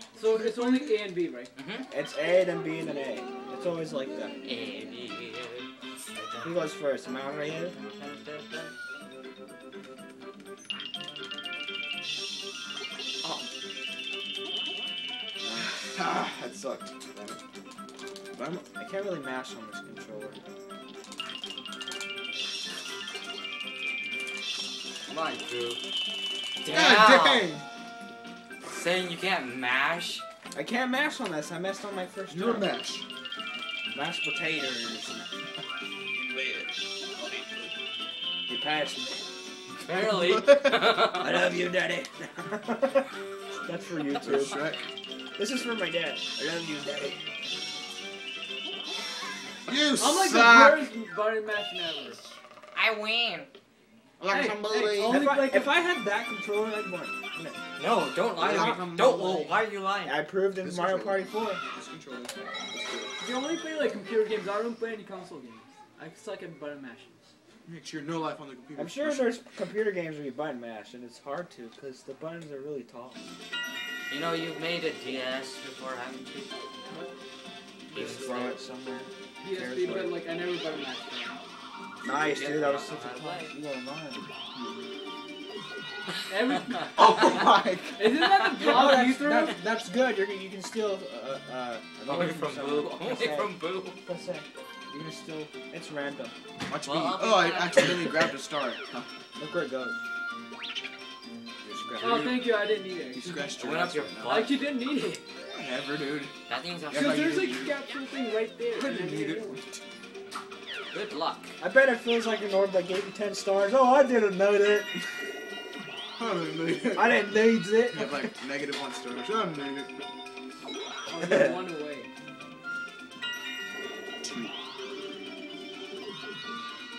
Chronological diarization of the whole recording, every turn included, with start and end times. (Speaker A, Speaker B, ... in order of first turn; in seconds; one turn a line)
Speaker A: 0.1-1.5
Speaker B: 0.2-1.0
Speaker C: 1.6-1.9
Speaker D: 1.9-4.4
Speaker C: 4.4-6.6
Speaker D: 6.4-7.8
Speaker C: 7.9-8.7
Speaker D: 15.4-15.8
Speaker B: 15.9-17.4
Speaker B: 18.3-18.6
Speaker D: 18.8-20.4
Speaker C: 25.1-25.8
Speaker C: 26.6-27.5
Speaker B: 26.7-27.6
Speaker C: 28.7-30.2
Speaker D: 30.5-32.7
Speaker B: 32.3-33.0
Speaker D: 33.9-35.3
Speaker B: 36.1-37.7
Speaker D: 38.5-39.3
Speaker C: 39.8-41.4
Speaker B: 40.1-40.6
Speaker D: 41.1-43.1
Speaker D: 43.6-44.6
Speaker B: 44.2-44.8
Speaker D: 45.4-47.2
Speaker B: 49.7-50.9
Speaker A: 50.0-52.2
Speaker C: 52.8-53.5
Speaker B: 54.2-55.2
Speaker A: 54.3-55.7
Speaker D: 55.0-57.6
Speaker C: 57.8-60.2
Speaker B: 58.4-59.7
Speaker D: 60.0-61.6
Speaker B: 60.6-63.1
Speaker A: 63.2-67.2
Speaker B: 67.7-69.3
Speaker D: 68.8-73.2
Speaker C: 74.1-76.5
Speaker C: 77.9-78.6
Speaker D: 77.9-80.2
Speaker A: 79.4-81.4
Speaker D: 82.0-84.3
Speaker C: 82.1-83.5
Speaker A: 86.3-87.3
Speaker B: 87.0-88.0
Speaker A: 88.0-89.6
Speaker D: 88.6-96.3
Speaker C: 92.1-94.0
Speaker B: 96.7-99.1
Speaker C: 96.8-98.2
Speaker D: 99.4-100.0
Speaker B: 101.6-102.5
Speaker A: 102.0-103.7
Speaker B: 103.1-104.5
Speaker C: 103.6-104.6
Speaker A: 104.3-105.2
Speaker B: 105.5-106.3
Speaker C: 106.5-107.3
Speaker B: 106.9-107.8
Speaker A: 106.9-109.6
Speaker B: 108.7-109.8
Speaker C: 110.9-111.5
Speaker D: 111.6-115.1
Speaker B: 116.2-117.2
Speaker D: 116.9-118.2
Speaker B: 117.9-119.9
Speaker A: 121.1-122.1
Speaker B: 124.2-124.5